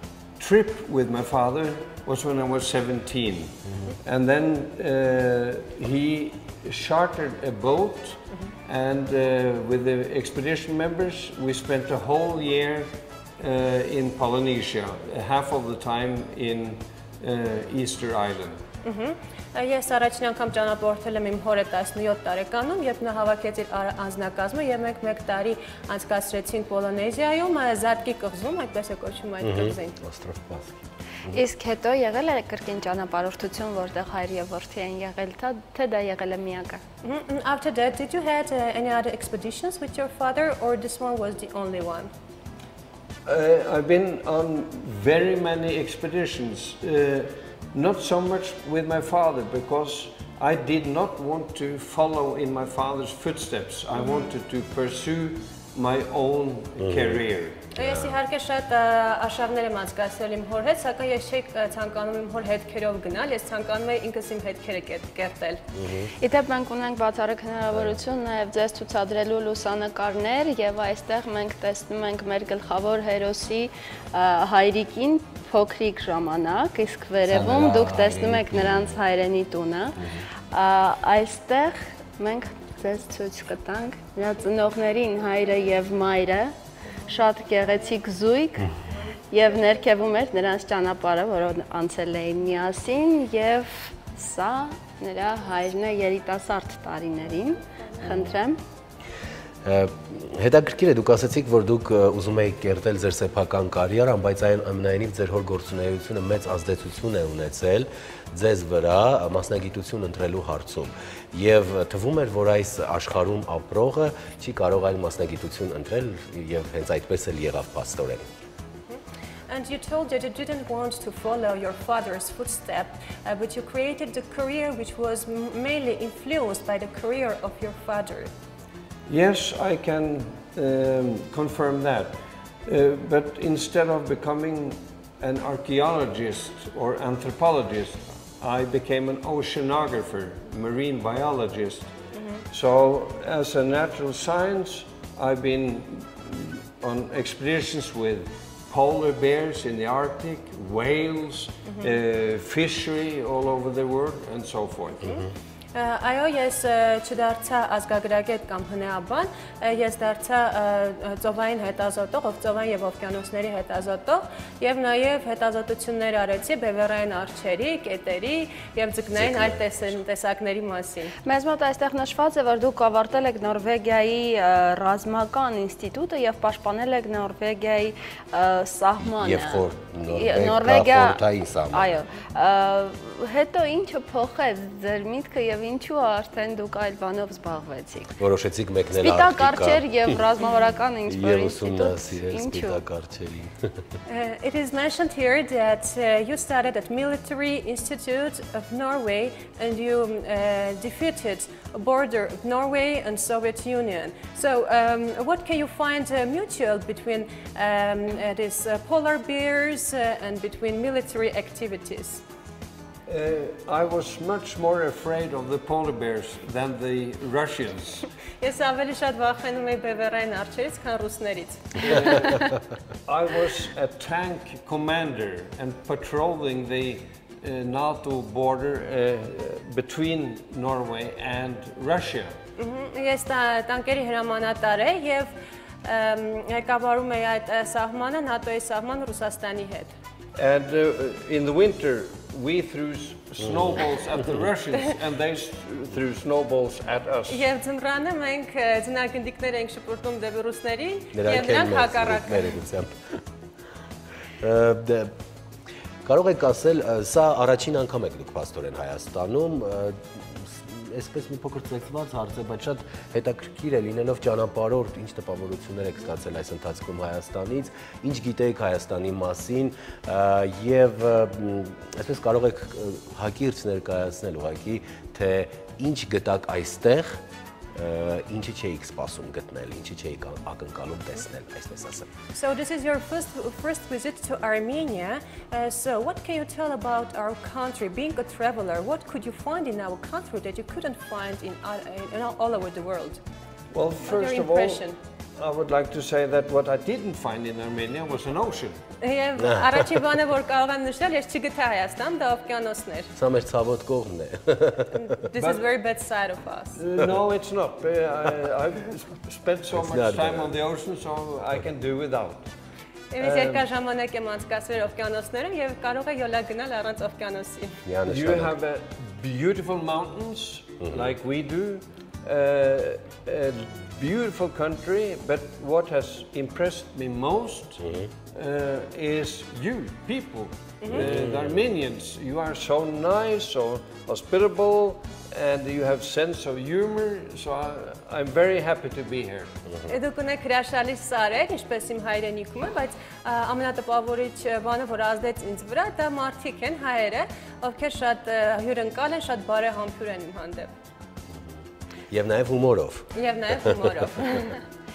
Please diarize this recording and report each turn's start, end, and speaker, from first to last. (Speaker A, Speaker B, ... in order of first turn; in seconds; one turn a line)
Speaker A: 0.4-18.6
Speaker B: 18.8-29.9
Speaker C: 29.4-31.4
Speaker D: 31.3-36.8
Speaker B: 37.0-42.1
Speaker A: 43.2-57.6
Speaker B: 54.0-54.3
Speaker C: 56.8-57.2
Speaker B: 57.8-65.6
Speaker C: 57.8-58.1
Speaker C: 65.7-66.1
Speaker D: 66.2-80.0
Speaker C: 67.7-68.0
Speaker C: 77.2-79.0
Speaker C: 80.0-80.2
Speaker D: 80.5-86.5
Speaker D: 87.1-88.7
Speaker D: 89.3-98.6
Speaker C: 98.0-98.3
Speaker C: 99.6-118.2
Speaker B: 118.9-128.3
Speaker A: 129.1-141.9
Speaker A: 142.5-155.1
Speaker B: 155.0-171.1
Speaker C: 169.1-169.6
Speaker D: 171.2-188.2
Speaker C: 179.0-182.0
Speaker C: 188.2-190.1
Speaker D: 188.9-192.8
Speaker C: 191.1-193.5
Speaker B: 194.1-212.2
Speaker A: 213.1-218.1
Speaker B: 218.4-222.5
Speaker A: 223.1-232.3
Speaker B: 232.6-239.9
Speaker A: 240.3-247.4
Speaker B: 247.3-252.5
Speaker C: 251.1-252.9
Speaker C: 254.4-255.1
Speaker C: 256.0-277.2
Speaker C: 277.7-282.1
Speaker B: 282.3-293.2
Speaker A: 293.7-298.8
Speaker B: 294.0-295.0
Speaker B: 299.0-303.1
Speaker C: 299.4-299.8
Speaker C: 303.1-305.1
Speaker B: 305.3-306.8
Speaker A: 305.3-305.6
Speaker A: 306.8-312.5
Speaker C: 309.7-310.5
Speaker B: 313.1-317.8
Speaker A: 313.2-313.7
Speaker C: 317.9-318.6
Speaker A: 318.1-339.5
Speaker C: 327.8-328.1
Speaker C: 331.0-331.5
Speaker B: 339.9-350.7
Speaker C: 352.1-353.1
Speaker B: 353.1-354.6